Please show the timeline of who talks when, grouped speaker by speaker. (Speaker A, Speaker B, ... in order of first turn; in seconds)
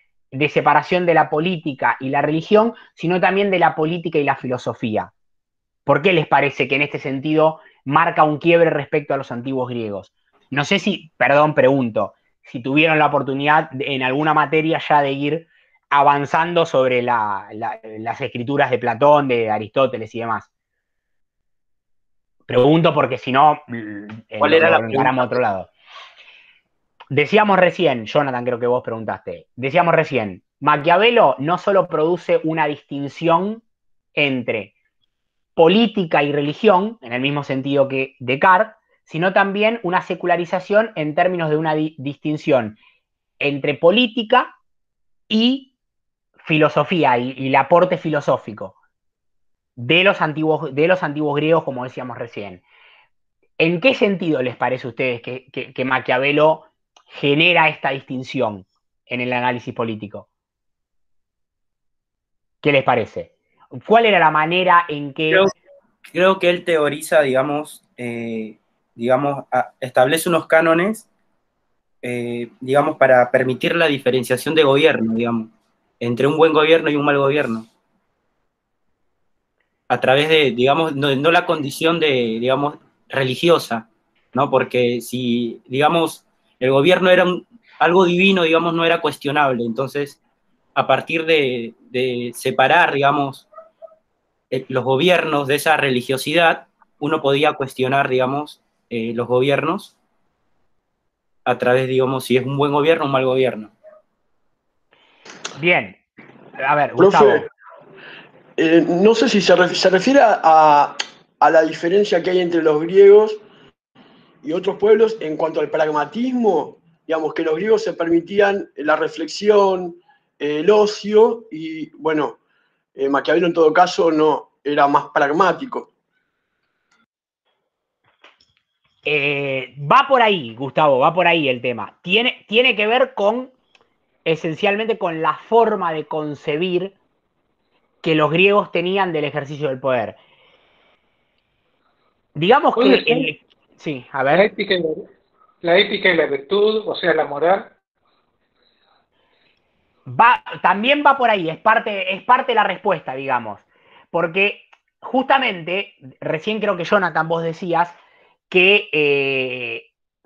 Speaker A: 0.3-5.1, 5.8-20.5, 22.5-25.7, 27.1-33.6, 34.1-34.7, 35.5-42.8, 43.4-44.5, 45.3-45.7, 46.4-48.8, 49.8-52.6, 53.6-60.2, 62.6-65.5, 105.5-106.0, 106.6-107.5, 129.0-133.5, 134.2-136.9, 138.0-140.2, 142.3-144.5, 150.1-157.9, 158.5-159.9
Speaker B: 24.4-25.4, 66.0-71.1, 72.0-77.7, 79.9-90.2, 90.7-93.5, 94.5-99.9, 101.5-103.7
Speaker C: 107.0-107.5, 108.6-113.4, 114.4-122.4, 123.0-125.9
Speaker D: 142.8-143.1, 144.4-145.0, 145.6-147.7